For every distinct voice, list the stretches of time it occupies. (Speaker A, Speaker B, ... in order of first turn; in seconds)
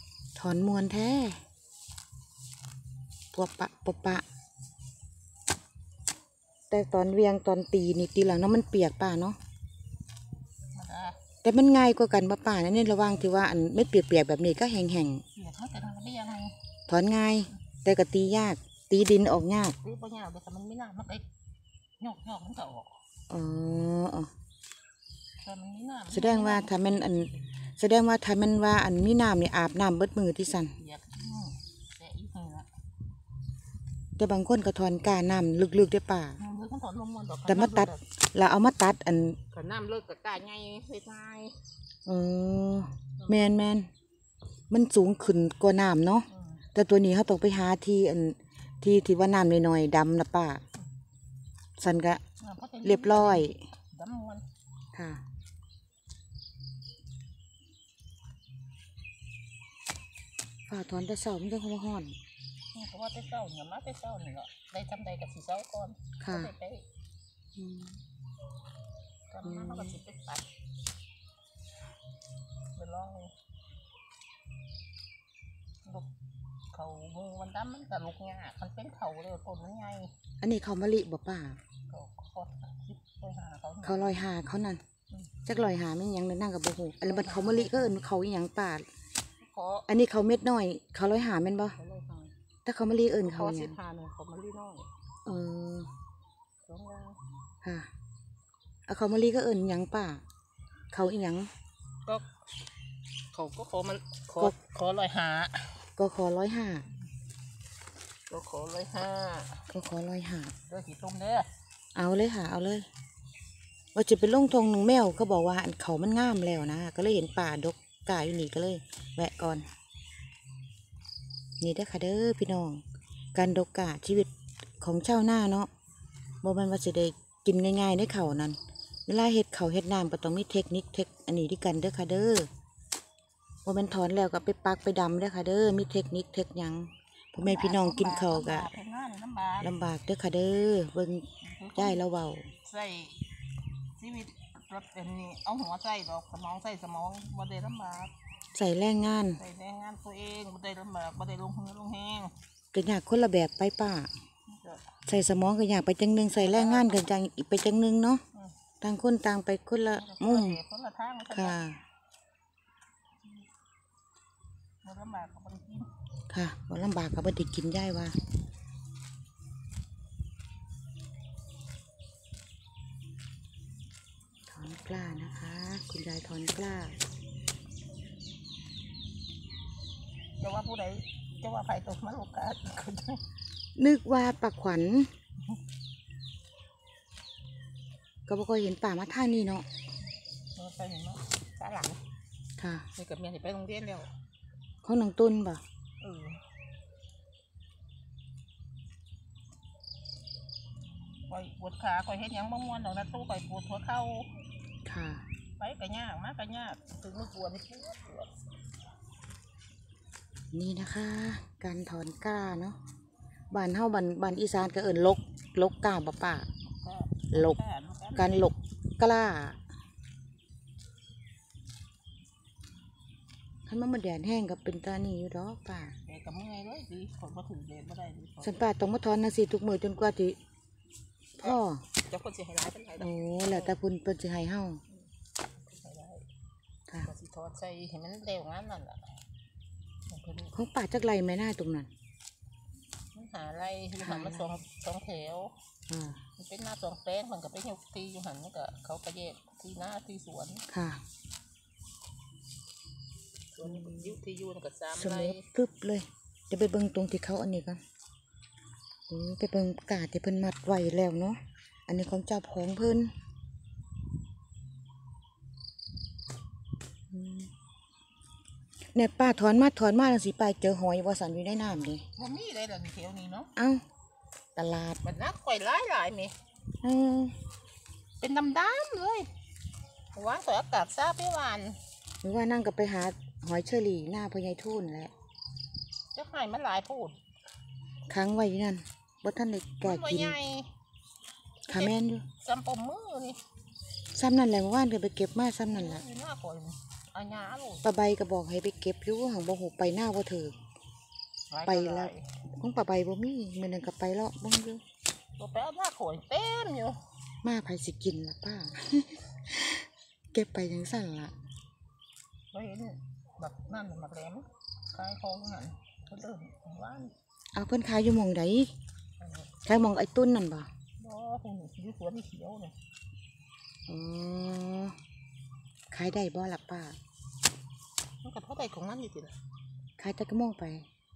Speaker A: 0.4-1.4, 3.3-4.2, 6.7-9.4, 11.4-15.2, 16.9-19.8, 23.3-24.3, 26.1-30.8, 34.2-36.4, 37.5-39.4, 42.1-43.9, 44.7-50.6, 51.8-52.2, 52.8-53.6, 54.9-55.2, 60.7-62.1, 66.2-66.5, 67.6-68.0, 69.4-70.0, 80.4-81.6, 83.8-84.8, 85.5-88.9, 89.9-91.8, 92.6-93.8, 95.2-95.9, 97.6-97.9, 98.9-100.2, 100.9-101.5, 106.0-106.9, 109.7-110.5, 111.9-112.9, 113.9-119.7, 121.6-122.8, 123.3-125.7, 126.4-132.5, 133.7-138.7, 139.6-142.5, 148.5-149.4, 152.7-154.1, 155.1-158.2, 158.8-160.6, 161.3-161.8, 166.3-168.2, 174.5-177.0, 183.8-185.1, 188.3-189.7, 192.6-192.9, 194.8-195.6, 204.8-205.2, 210.5-212.8, 213.5-216.5, 217.3-217.6, 218.2-219.6, 223.7-225.9, 228.4-230.4, 231.4-231.8, 233.0-234.8, 240.5-241.9, 244.0-244.5, 245.9-246.2, 250.7-251.0, 253.6-254.2, 255.0-257.8, 259.1-263.1, 267.1-267.5, 268.9-272.0, 273.6-273.8, 274.6-275.0, 276.8-277.3, 282.2-285.1, 288.1-290.4, 291.7-292.2, 294.1-296.0, 297.8-300.6, 301.7-304.8, 307.4-311.3, 317.6-318.7, 319.6-320.7, 323.9-324.9, 325.9-326.9, 330.0-330.9
Speaker B: 10.8-11.2, 15.3-16.6, 19.8-21.2, 22.0-22.9, 25.4-27.0, 30.8-32.7, 36.4-38.0, 39.5-41.6, 46.3-46.6, 52.4-54.4, 62.7-66.9, 69.3-70.5, 72.7-73.3, 76.7-80.1, 81.9-84.2, 85.1-85.4, 87.0-88.0, 89.4-89.9, 91.8-92.3, 93.2-94.9, 96.7-97.2, 103.3-105.8, 108.3-109.6, 110.7-111.5, 137.4-139.7, 141.4-142.1, 142.6-143.2, 144.0-148.1, 149.3-152.3, 154.5-154.9, 156.3-157.1, 159.9-161.6, 164.8-165.9, 180.4-183.2, 190.6-192.0, 192.9-194.1, 196.0-196.4, 201.3-204.3, 205.6-208.3, 216.6-218.5, 226.1-228.6, 231.4-233.7, 235.6-236.2, 237.0-239.2, 240.1-240.6, 243.1-245.5, 246.4-250.7, 253.5-255.4, 272.2-273.5, 275.0-276.3, 278.2-279.3, 280.1-281.8, 286.1-287.2, 289.8-290.7, 291.7-293.4, 295.7-297.8, 301.5-302.3, 305.4-307.0, 312.5-317.1, 319.2-319.5, 321.0-322.7, 328.2-329.4